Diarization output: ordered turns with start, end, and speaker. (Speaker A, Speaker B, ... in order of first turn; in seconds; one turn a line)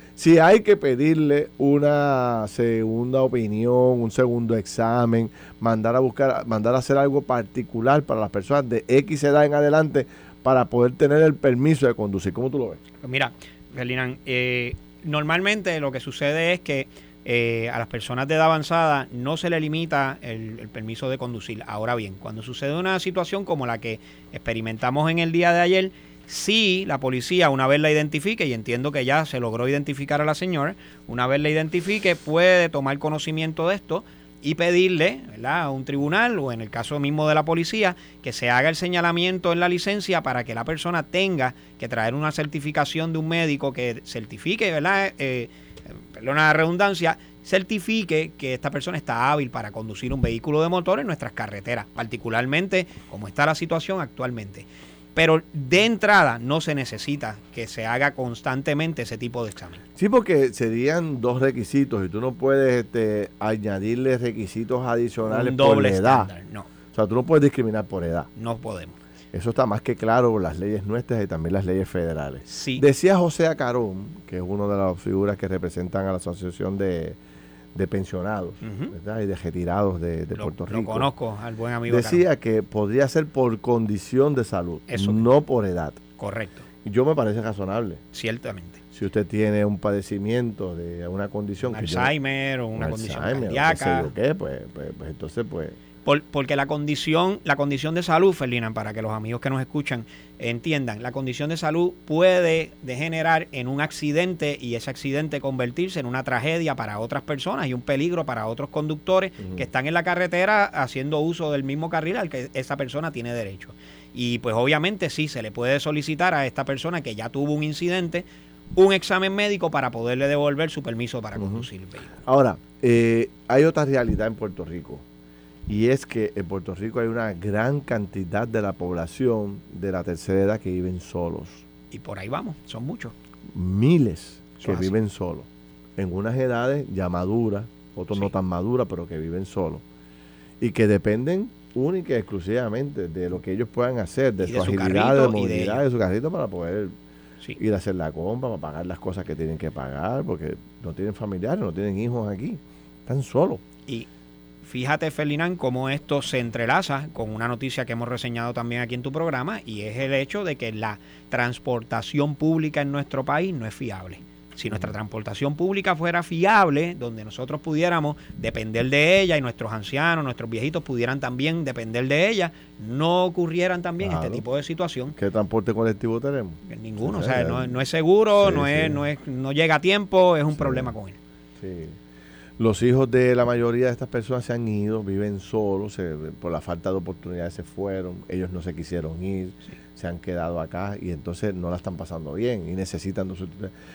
Speaker A: 0.2-12.8
Speaker B: 13.0-59.8
Speaker A: 60.0-66.3
Speaker B: 65.2-66.7
Speaker A: 66.9-68.3
Speaker B: 68.3-69.0
Speaker A: 69.3-77.2
Speaker B: 72.5-72.8
Speaker A: 77.7-81.1
Speaker B: 78.6-78.9
Speaker B: 80.4-82.2
Speaker A: 81.9-86.0
Speaker B: 84.9-85.3
Speaker B: 86.2-86.6
Speaker A: 86.8-88.0
Speaker B: 88.1-88.8
Speaker A: 88.9-92.1
Speaker B: 91.6-94.1
Speaker A: 92.8-95.8
Speaker B: 96.0-118.2
Speaker A: 109.4-109.7
Speaker B: 118.8-122.2
Speaker A: 121.3-121.7
Speaker A: 122.2-125.0
Speaker A: 125.7-131.6
Speaker B: 131.9-133.1
Speaker A: 133.5-139.8
Speaker B: 134.6-134.9
Speaker A: 140.6-146.9
Speaker B: 144.4-145.8
Speaker A: 147.6-153.6
Speaker B: 154.6-175.1
Speaker A: 174.0-174.4
Speaker A: 175.1-177.8
Speaker B: 176.6-181.2
Speaker A: 178.4-179.0
Speaker A: 180.5-180.9
Speaker A: 181.6-182.0
Speaker A: 182.6-193.7